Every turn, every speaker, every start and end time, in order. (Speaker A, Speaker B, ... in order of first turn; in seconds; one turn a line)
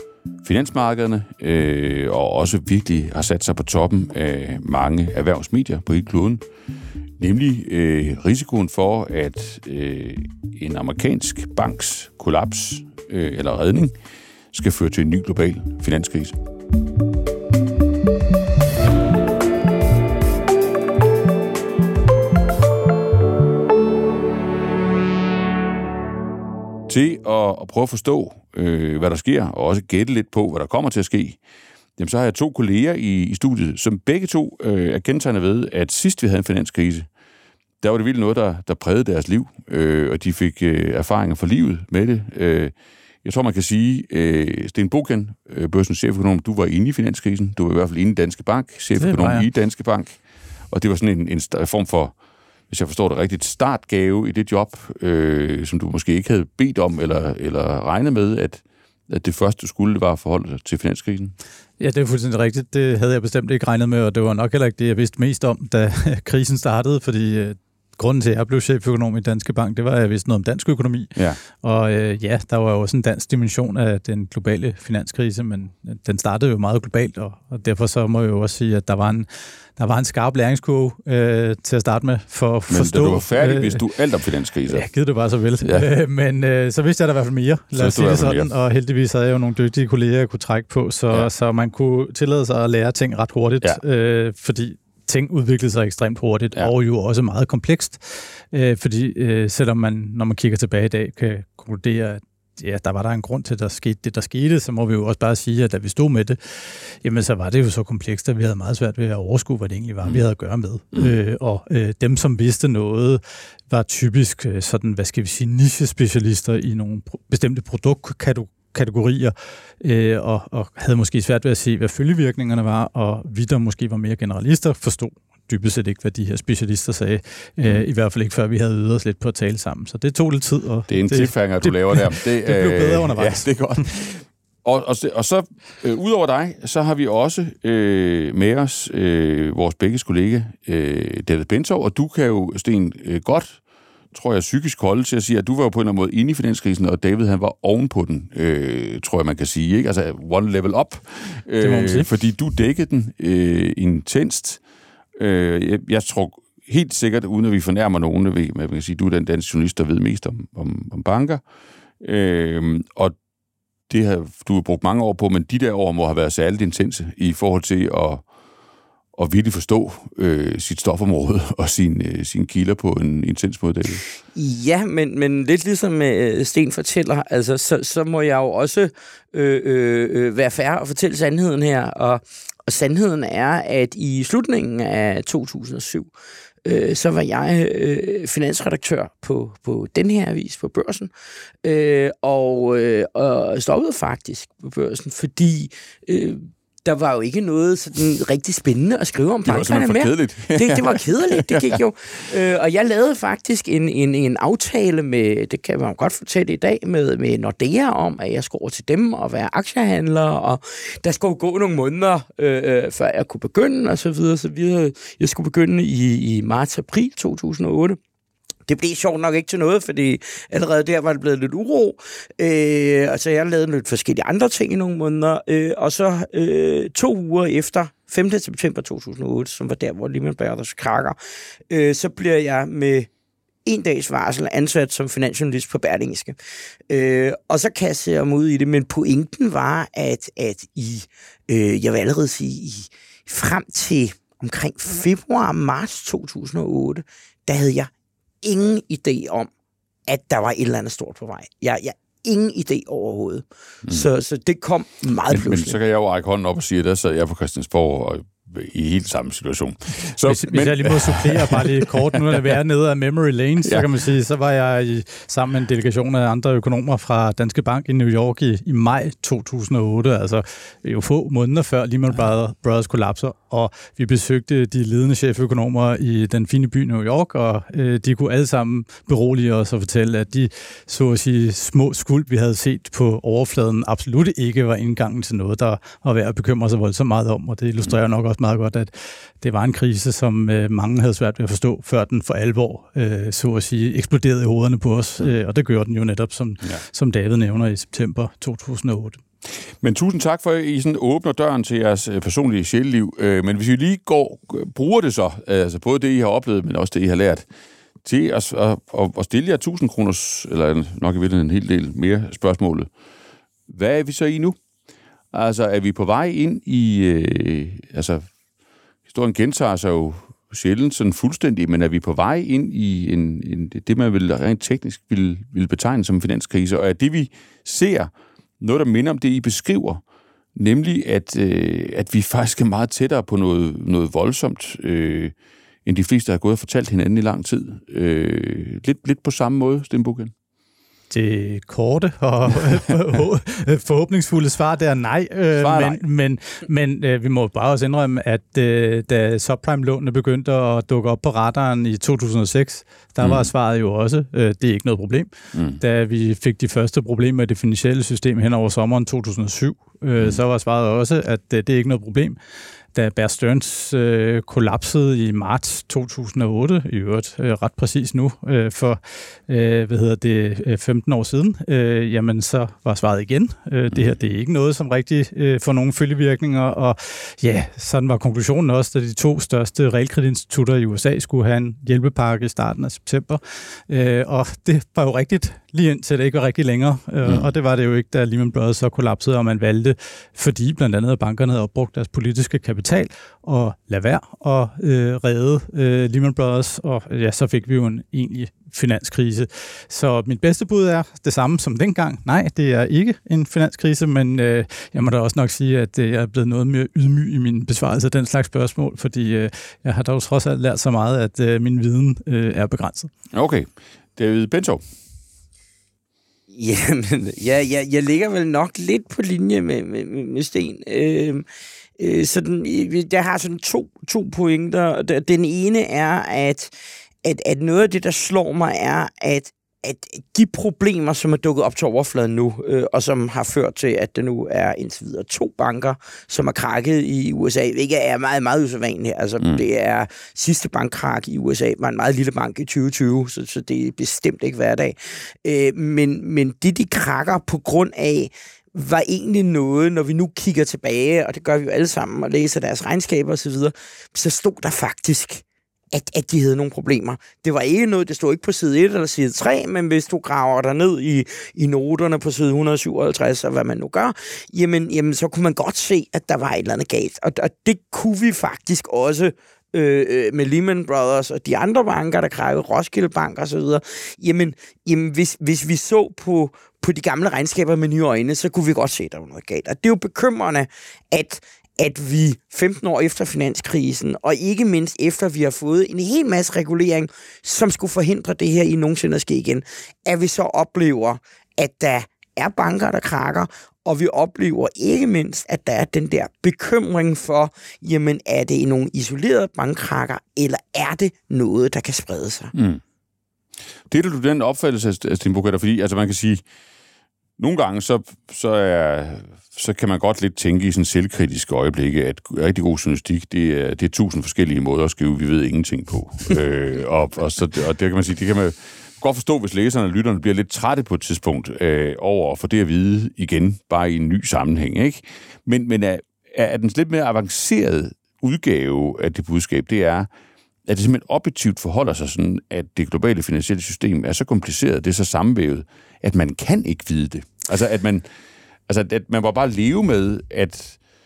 Speaker A: 0.4-6.4
Speaker A: 7.2-13.9
Speaker A: 14.5-16.4
Speaker A: 26.9-31.4
Speaker A: 32.0-37.1
Speaker A: 37.8-50.2
Speaker B: 49.0-49.5
Speaker A: 50.7-52.1
Speaker A: 52.7-61.3
Speaker B: 61.8-83.8
Speaker A: 82.7-84.9
Speaker B: 84.7-133.5
Speaker A: 85.6-85.9
Speaker A: 87.8-88.5
Speaker A: 130.9-143.6
Speaker A: 144.1-154.6
Speaker B: 151.6-152.1
Speaker A: 155.2-161.4
Speaker A: 162.0-163.2
Speaker A: 163.9-168.2
Speaker A: 169.2-174.1
Speaker C: 174.3-186.1
Speaker C: 186.7-191.1
Speaker C: 191.6-218.0
Speaker A: 199.5-201.8
Speaker C: 218.7-231.2
Speaker C: 231.7-233.1
Speaker C: 233.7-236.4
Speaker C: 236.9-247.9
Speaker C: 248.4-249.5
Speaker C: 250.1-255.8
Speaker A: 255.3-262.5
Speaker B: 260.3-299.2
Speaker A: 299.5-307.5
Speaker A: 308.0-312.9
Speaker A: 313.7-314.6
Speaker A: 315.3-318.3
Speaker A: 319.1-330.0
Speaker A: 330.6-335.3
Speaker A: 335.9-340.3
Speaker B: 341.1-362.4
Speaker A: 345.5-346.0
Speaker A: 353.2-353.5
Speaker A: 355.5-355.8
Speaker B: 362.9-413.1
Speaker A: 413.3-414.8
Speaker C: 416.5-421.5
Speaker C: 422.0-426.7
Speaker C: 427.2-502.5
Speaker A: 502.5-502.8
Speaker A: 503.9-506.4
Speaker A: 507.4-530.1
Speaker A: 530.7-538.0
Speaker A: 538.7-540.8